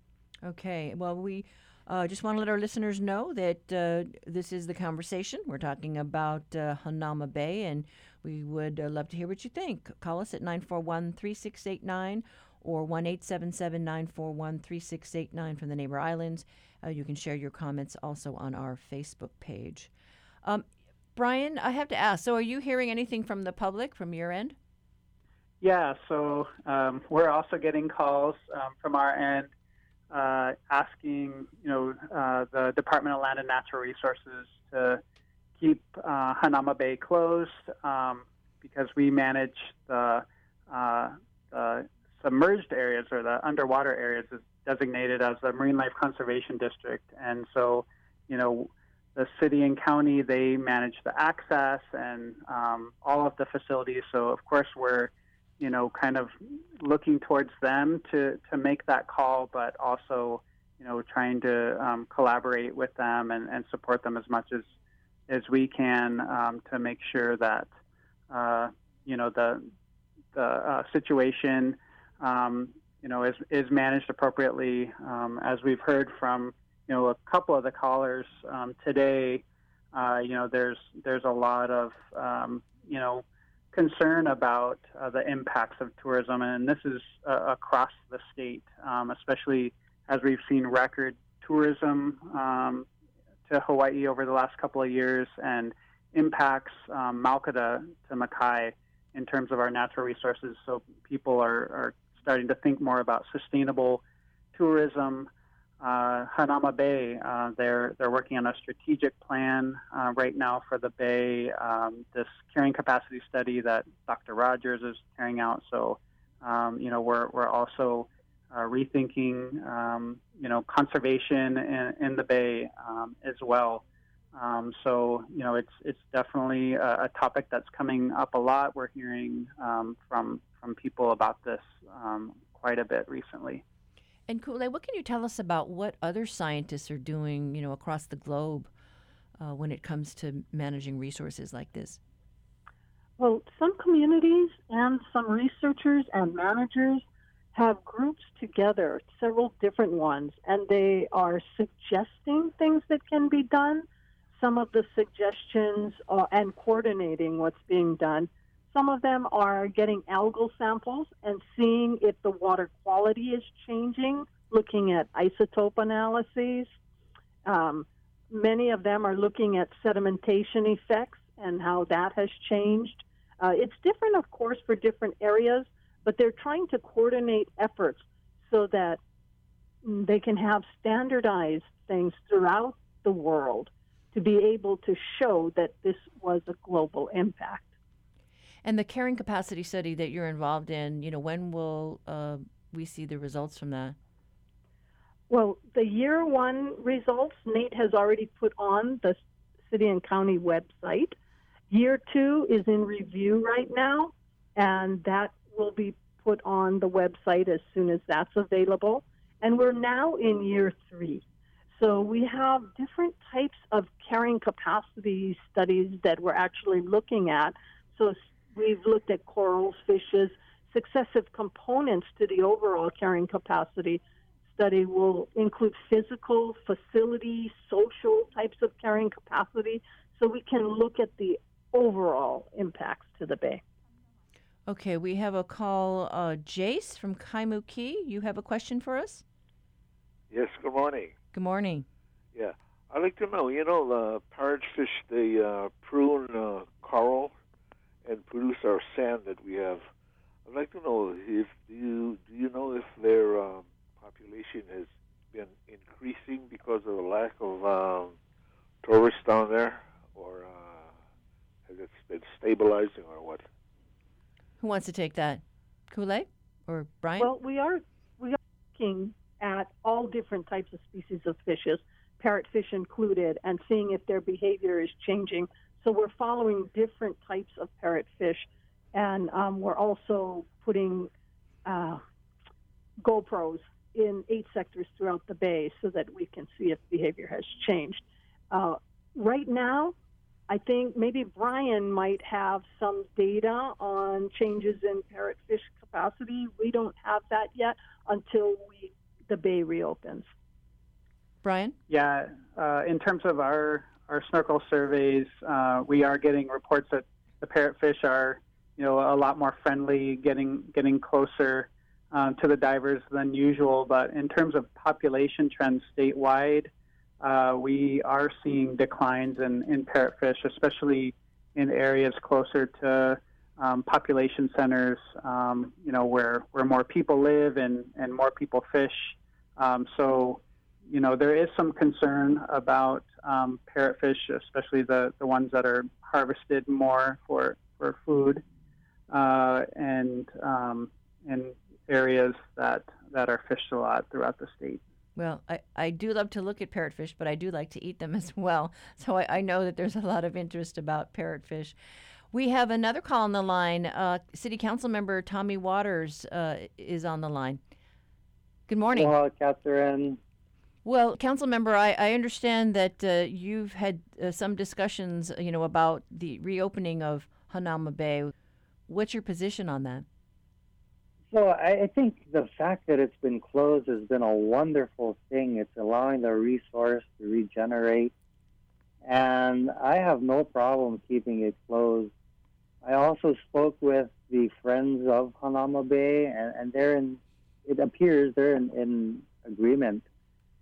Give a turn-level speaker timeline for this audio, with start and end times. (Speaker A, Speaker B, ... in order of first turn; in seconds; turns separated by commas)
Speaker A: 0.4-19.9, Speaker A: 21.1-24.6, Speaker B: 25.6-29.5, Speaker B: 30.1-35.0, Speaker B: 35.6-64.7, Speaker B: 65.3-67.7, Speaker B: 68.3-69.7, Speaker B: 70.3-92.9, Speaker B: 93.5-104.0, Speaker B: 104.5-105.3, Speaker B: 105.8-123.8, Speaker B: 124.3-133.6, Speaker A: 134.3-138.7, Speaker A: 139.4-142.0, Speaker C: 143.2-166.7, Speaker C: 167.4-179.0, Speaker C: 179.8-187.7, Speaker A: 188.6-193.9, Speaker C: 195.3-201.1, Speaker C: 201.7-211.2, Speaker C: 211.8-233.6, Speaker A: 234.7-239.2, Speaker D: 240.3-241.1, Speaker A: 241.3-241.8, Speaker D: 242.3-247.3, Speaker D: 248.0-249.9, Speaker D: 250.4-258.1, Speaker D: 258.8-260.9, Speaker D: 261.7-263.5, Speaker A: 264.6-267.3, Speaker C: 267.2-281.1, Speaker C: 281.6-282.0, Speaker C: 283.0-289.9, Speaker C: 290.5-300.3, Speaker A: 301.4-301.8, Speaker B: 301.9-338.4, Speaker B: 339.1-344.8, Speaker A: 345.1-351.8, Speaker A: 352.3-357.6, Speaker A: 358.7-359.1, Speaker E: 358.9-360.2, Speaker A: 360.8-368.3, Speaker A: 368.9-370.0, Speaker E: 371.3-378.1, Speaker E: 379.0-382.1, Speaker E: 382.8-390.0